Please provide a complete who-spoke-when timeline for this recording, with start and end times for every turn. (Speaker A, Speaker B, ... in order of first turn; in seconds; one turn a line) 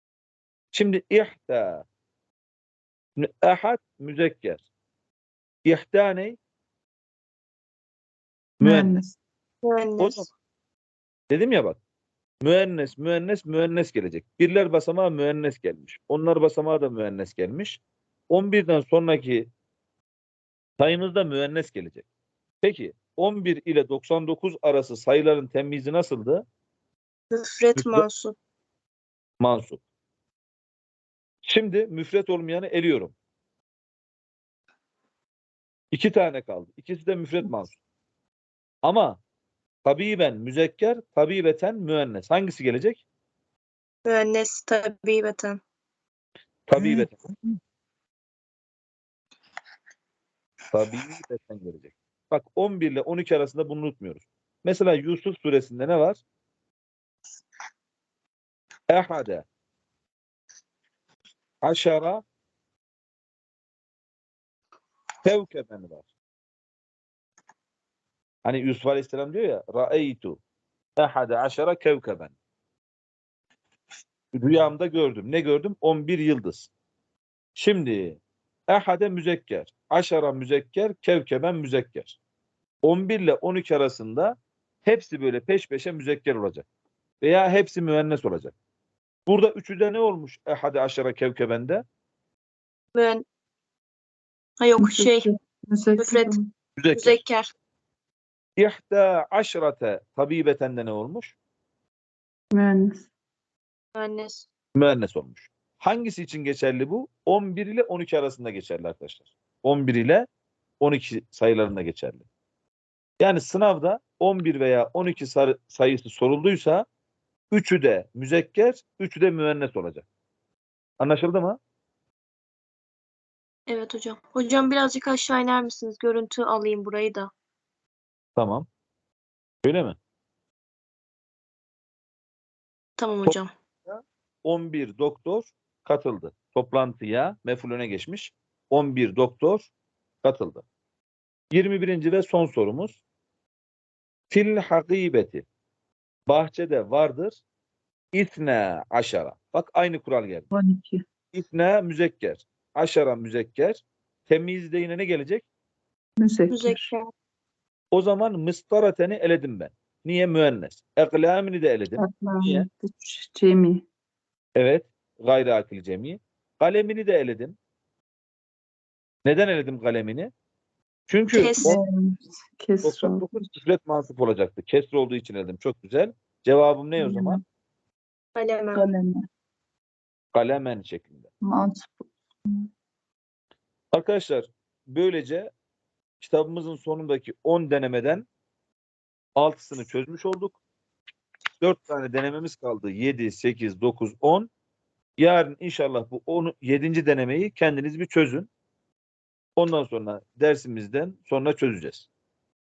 Speaker A: 0.7-1.9
Speaker A: 3.2-4.7
Speaker A: 5.7-6.4
Speaker A: 8.6-8.9
Speaker B: 8.6-9.1
Speaker C: 9.6-10.3
Speaker A: 10.0-10.3
Speaker A: 11.3-11.8
Speaker A: 12.4-19.5
Speaker A: 20.8-22.1
Speaker A: 22.6-26.4
Speaker C: 27.3-28.4
Speaker A: 27.8-28.1
Speaker A: 29.4-29.8
Speaker A: 31.4-33.1
Speaker A: 35.9-37.8
Speaker A: 38.8-39.2
Speaker A: 39.9-43.0
Speaker C: 44.0-45.6
Speaker A: 46.7-47.2
Speaker A: 50.7-56.2
Speaker A: 58.9-59.5
Speaker A: 61.6-62.2
Speaker A: 65.2-66.1
Speaker A: 68.5-70.4
Speaker A: 71.0-72.3
Speaker A: 74.3-76.7
Speaker A: 77.6-82.2
Speaker A: 82.8-86.7
Speaker A: 87.2-88.5
Speaker A: 89.3-91.8
Speaker C: 93.0-93.2
Speaker C: 94.6-95.3
Speaker B: 94.8-96.5
Speaker C: 96.0-96.4
Speaker A: 96.8-97.2
Speaker C: 96.9-97.5
Speaker A: 98.6-101.3
Speaker B: 102.5-103.1
Speaker C: 104.0-104.5
Speaker A: 104.8-110.3
Speaker A: 110.8-112.2
Speaker A: 113.2-116.9
Speaker A: 117.5-120.1
Speaker A: 121.0-121.6
Speaker C: 123.7-127.3
Speaker A: 128.4-128.7
Speaker A: 129.7-130.0
Speaker C: 133.0-133.5
Speaker A: 133.2-139.7
Speaker A: 140.2-140.7
Speaker A: 141.5-143.0
Speaker A: 144.3-145.4
Speaker A: 146.3-147.4
Speaker A: 148.2-150.5
Speaker B: 150.5-151.0
Speaker A: 151.3-155.5
Speaker B: 156.2-156.9
Speaker C: 156.5-157.1
Speaker A: 157.9-162.7
Speaker B: 162.0-163.8
Speaker A: 164.6-167.6
Speaker A: 169.2-170.3
Speaker A: 171.1-171.8
Speaker C: 171.3-171.7
Speaker B: 171.6-173.3
Speaker A: 172.8-177.4
Speaker B: 177.0-177.4
Speaker C: 178.4-178.9
Speaker B: 178.7-179.2
Speaker A: 180.3-181.3
Speaker B: 181.4-182.7
Speaker A: 183.9-185.5
Speaker A: 186.2-188.3
Speaker A: 189.4-190.6
Speaker A: 191.6-194.5
Speaker A: 195.2-198.5
Speaker A: 199.6-202.1